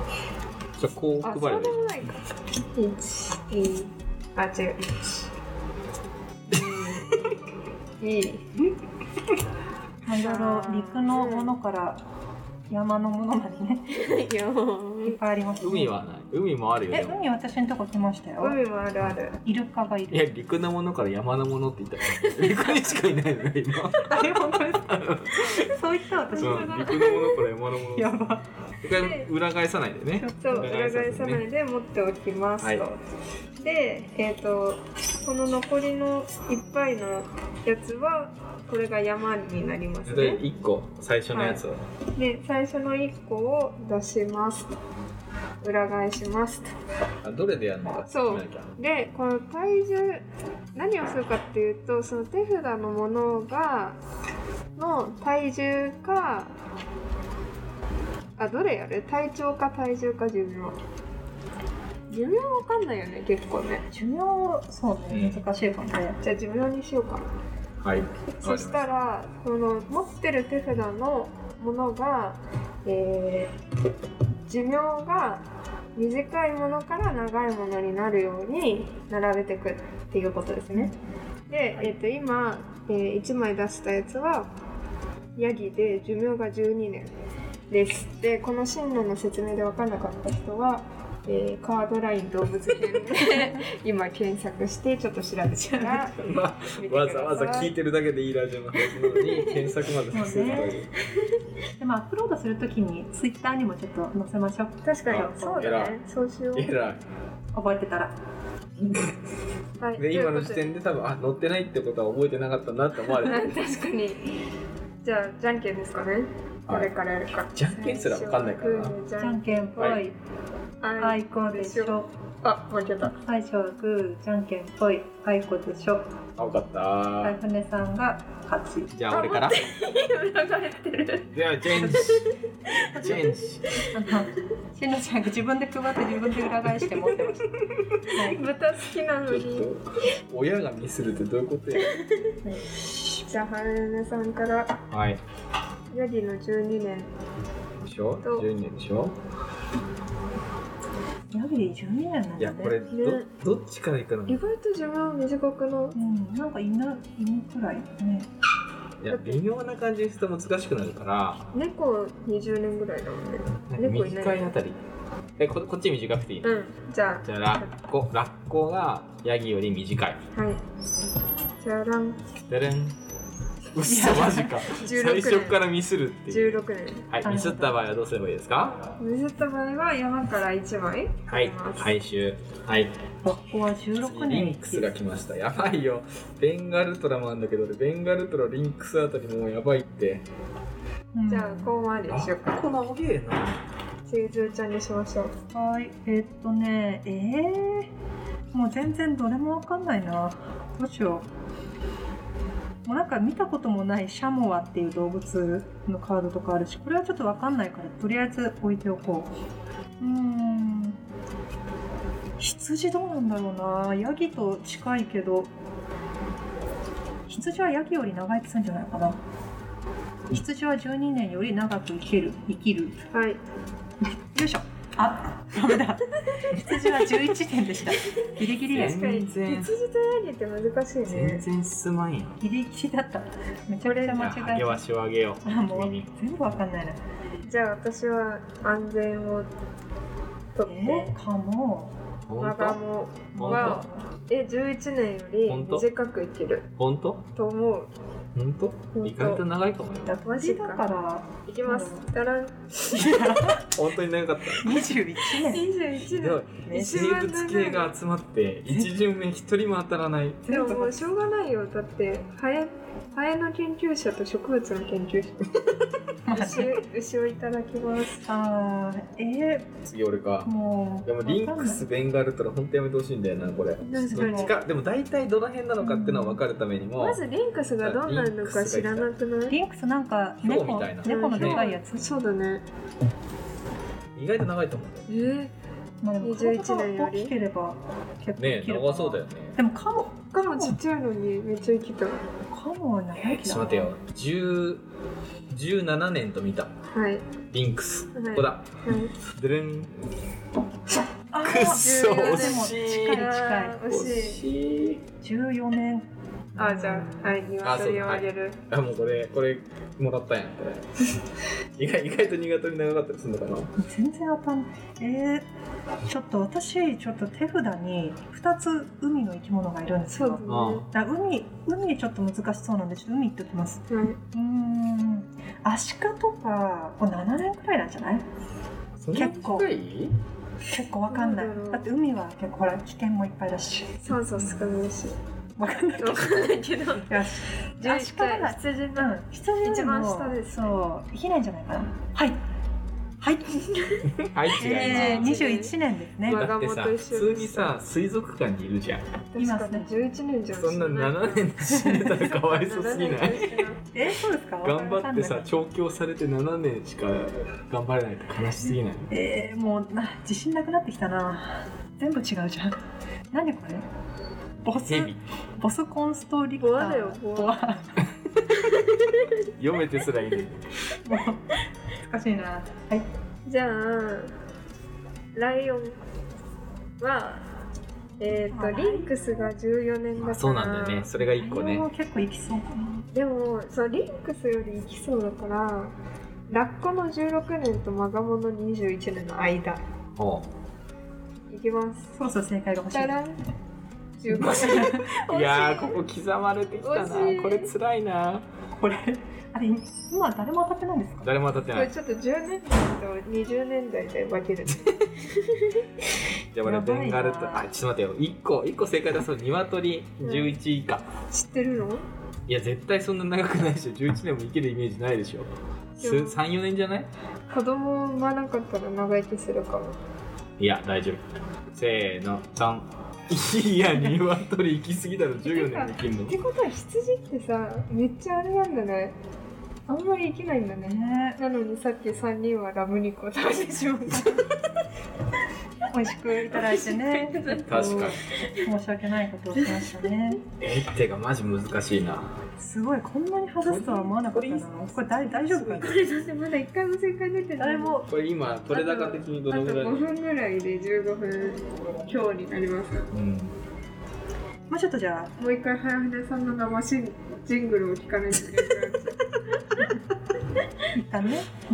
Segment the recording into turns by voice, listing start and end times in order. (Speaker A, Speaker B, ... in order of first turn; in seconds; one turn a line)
Speaker A: 0.8-2.0
Speaker B: 1.2-2.2
Speaker B: 2.7-5.0
Speaker B: 6.5-7.2
Speaker A: 6.5-6.9
Speaker B: 8.0-8.6
Speaker C: 10.0-12.0
Speaker B: 10.2-11.5
Speaker C: 12.7-13.8
Speaker B: 13.9-15.2
Speaker C: 15.0-15.9
Speaker A: 15.6-17.2
Speaker C: 16.9-18.6
Speaker B: 18.4-19.4
Speaker C: 19.4-20.2
Speaker A: 20.1-25.7
Speaker B: 22.2-22.8
Speaker C: 24.1-25.0
Speaker C: 25.7-27.0
Speaker B: 26.2-27.4
Speaker A: 26.4-28.1
Speaker C: 27.9-28.4
Speaker A: 28.8-31.4
Speaker B: 29.0-29.2
Speaker C: 30.2-30.6
Speaker B: 30.4-33.0
Speaker B: 33.6-40.4
Speaker A: 40.1-41.8
Speaker B: 41.3-41.6
Speaker B: 42.1-44.7
Speaker B: 45.6-46.7
Speaker A: 47.2-48.7
Speaker B: 48.1-50.2
Speaker B: 50.8-54.0
Speaker B: 54.8-56.5
Speaker B: 58.4-60.8
Speaker B: 62.1-63.8
Speaker C: 63.9-66.2
Speaker A: 65.1-65.4
Speaker B: 66.2-67.2
Speaker A: 67.8-68.9
Speaker B: 68.4-73.5
Speaker B: 74.5-75.4
Speaker B: 76.0-80.9
Speaker B: 81.5-84.5
Speaker B: 85.3-87.1
Speaker B: 87.7-96.2
Speaker A: 95.8-100.9
Speaker B: 96.7-97.7
Speaker B: 98.8-99.7
Speaker C: 100.1-100.8
Speaker C: 101.8-105.6
Speaker B: 104.8-106.7
Speaker A: 105.1-105.9
Speaker A: 106.5-107.0
Speaker C: 107.5-108.1
Speaker A: 108.8-109.1
Speaker B: 109.8-110.6
Speaker A: 110.0-113.5
Speaker B: 113.2-114.3
Speaker B: 115.0-120.0
Speaker A: 117.5-119.0
Speaker C: 119.2-120.1
Speaker A: 119.8-120.0
Speaker B: 120.8-123.2
Speaker C: 121.0-122.1
Speaker C: 123.2-126.1
Speaker A: 126.4-127.4
Speaker C: 127.2-129.0
Speaker A: 128.9-129.7
Speaker B: 129.1-131.3
Speaker A: 131.3-132.3
Speaker C: 131.8-132.1
Speaker B: 131.8-133.2
Speaker C: 132.9-133.3
Speaker A: 132.9-133.8
Speaker C: 133.9-137.4
Speaker C: 138.1-138.4
Speaker B: 138.1-139.7
Speaker A: 139.3-142.0
Speaker B: 141.8-142.3
Speaker C: 142.4-143.2
Speaker B: 143.2-144.8
Speaker A: 144.9-145.2
Speaker B: 145.9-147.1
Speaker A: 147.8-149.1
Speaker C: 151.3-152.8
Speaker A: 152.4-154.4
Speaker B: 152.9-153.3
Speaker B: 154.3-156.0
Speaker C: 155.9-158.3
Speaker A: 159.0-161.5
Speaker B: 159.1-159.4
Speaker B: 161.5-164.5
Speaker A: 163.7-164.8
Speaker A: 165.4-166.5
Speaker B: 166.4-167.7
Speaker A: 167.2-170.2
Speaker B: 170.3-170.6
Speaker B: 171.6-172.2
Speaker A: 172.5-172.9
Speaker A: 173.7-176.6
Speaker C: 173.8-174.6
Speaker B: 174.7-175.6
Speaker B: 176.3-177.1
Speaker A: 177.1-178.8
Speaker C: 177.2-177.7
Speaker B: 178.9-181.9
Speaker A: 181.3-182.9
Speaker C: 183.2-184.9
Speaker A: 184.0-190.2
Speaker C: 191.1-191.7
Speaker B: 191.3-192.6
Speaker A: 192.1-193.6
Speaker B: 194.1-195.3
Speaker C: 195.5-197.9
Speaker C: 198.5-201.3
Speaker C: 202.8-209.3
Speaker C: 210.0-211.0
Speaker C: 212.4-215.5
Speaker C: 217.3-219.2
Speaker C: 220.3-223.0
Speaker B: 223.1-223.4
Speaker C: 224.0-229.2
Speaker A: 228.7-229.7
Speaker B: 228.7-231.4
Speaker A: 231.1-232.4
Speaker C: 232.4-234.8
Speaker B: 233.8-234.3
Speaker A: 234.1-236.1
Speaker C: 235.4-237.0
Speaker B: 237.4-239.5
Speaker B: 240.6-241.1
Speaker C: 240.7-241.9
Speaker A: 242.3-242.8
Speaker B: 242.3-246.7
Speaker A: 243.3-243.8
Speaker C: 243.3-244.0
Speaker A: 245.5-245.8
Speaker A: 246.8-247.2
Speaker B: 247.3-247.9
Speaker A: 248.3-250.2
Speaker B: 248.9-249.4
Speaker B: 250.2-250.9
Speaker C: 250.2-252.1
Speaker B: 251.4-252.9
Speaker C: 252.9-253.7
Speaker A: 252.9-254.9
Speaker C: 254.6-255.7
Speaker B: 255.3-257.9
Speaker A: 256.0-260.4
Speaker C: 256.6-257.0
Speaker B: 260.4-265.6
Speaker C: 260.5-261.1
Speaker C: 266.3-266.8
Speaker B: 266.3-268.2
Speaker C: 268.2-269.7
Speaker A: 269.8-270.5
Speaker C: 270.4-271.8
Speaker A: 271.0-277.2
Speaker B: 273.8-274.6
Speaker C: 274.1-274.5
Speaker C: 275.8-276.4
Speaker B: 277.0-279.6
Speaker A: 277.8-279.1
Speaker C: 279.5-282.0
Speaker A: 280.4-281.6
Speaker B: 281.0-282.6
Speaker A: 284.1-285.1
Speaker B: 285.1-285.5
Speaker C: 286.0-290.8
Speaker B: 286.2-287.3
Speaker A: 288.4-289.6
Speaker B: 290.3-292.2
Speaker C: 292.5-293.9
Speaker A: 293.2-294.8
Speaker A: 295.5-296.7
Speaker B: 296.9-297.2
Speaker A: 297.5-298.6
Speaker B: 298.1-299.1
Speaker A: 299.4-299.9
Speaker C: 301.3-303.8
Speaker A: 301.4-303.3
Speaker B: 301.7-304.4
Speaker A: 303.9-305.0
Speaker C: 305.2-307.3
Speaker B: 306.6-308.6
Speaker A: 307.6-310.9
Speaker A: 311.8-313.7
Speaker C: 313.8-315.4
Speaker C: 316.1-328.2
Speaker B: 320.1-320.9
Speaker A: 320.5-320.9
Speaker B: 323.9-324.2
Speaker A: 329.0-330.1
Speaker C: 329.1-329.7
Speaker C: 330.7-334.1
Speaker B: 331.1-331.9
Speaker B: 334.0-335.2
Speaker C: 335.6-342.4
Speaker B: 336.0-337.1
Speaker B: 337.8-340.8
Speaker C: 343.2-343.7
Speaker B: 343.6-344.1
Speaker A: 344.2-345.3
Speaker C: 344.6-346.5
Speaker B: 344.7-345.7
Speaker B: 346.2-347.8
Speaker A: 346.3-349.0
Speaker B: 349.3-351.4
Speaker C: 349.4-349.9
Speaker A: 350.5-353.6
Speaker C: 351.6-352.3
Speaker B: 352.2-353.8
Speaker C: 353.9-355.5
Speaker A: 354.6-359.1
Speaker C: 359.1-362.8
Speaker C: 363.3-363.8
Speaker C: 364.6-368.0
Speaker A: 364.9-365.2
Speaker B: 366.6-367.6
Speaker B: 368.6-369.4
Speaker A: 369.6-370.6
Speaker C: 371.0-373.1
Speaker B: 373.4-374.3
Speaker B: 375.3-376.0
Speaker B: 377.0-377.4
Speaker B: 378.2-381.1
Speaker C: 378.5-379.5
Speaker A: 380.2-381.9
Speaker C: 381.2-383.1
Speaker B: 383.1-385.9
Speaker B: 386.5-389.8
Speaker A: 390.2-390.4
Speaker B: 391.5-392.1
Speaker C: 392.2-393.1
Speaker B: 392.9-393.4
Speaker B: 394.2-396.0
Speaker C: 394.3-395.1
Speaker A: 394.4-398.4
Speaker B: 396.8-397.7
Speaker C: 398.7-401.3
Speaker A: 401.2-401.9
Speaker B: 401.7-405.8
Speaker A: 406.5-411.0
Speaker C: 406.6-407.6
Speaker B: 410.2-410.5
Speaker B: 411.3-412.0
Speaker A: 412.5-417.1
Speaker B: 416.0-416.4
Speaker B: 417.5-419.9
Speaker A: 420.6-426.4
Speaker B: 425.4-429.1
Speaker B: 429.9-434.5
Speaker C: 430.8-431.4
Speaker C: 435.9-440.4
Speaker B: 436.5-438.6
Speaker A: 437.7-438.2
Speaker A: 440.6-442.3
Speaker C: 442.6-446.0
Speaker A: 443.6-445.9
Speaker B: 445.7-448.0
Speaker C: 447.6-448.1
Speaker A: 448.1-450.1
Speaker B: 448.7-453.1
Speaker A: 453.1-453.5
Speaker C: 454.7-455.3
Speaker B: 455.4-459.2
Speaker C: 460.9-461.5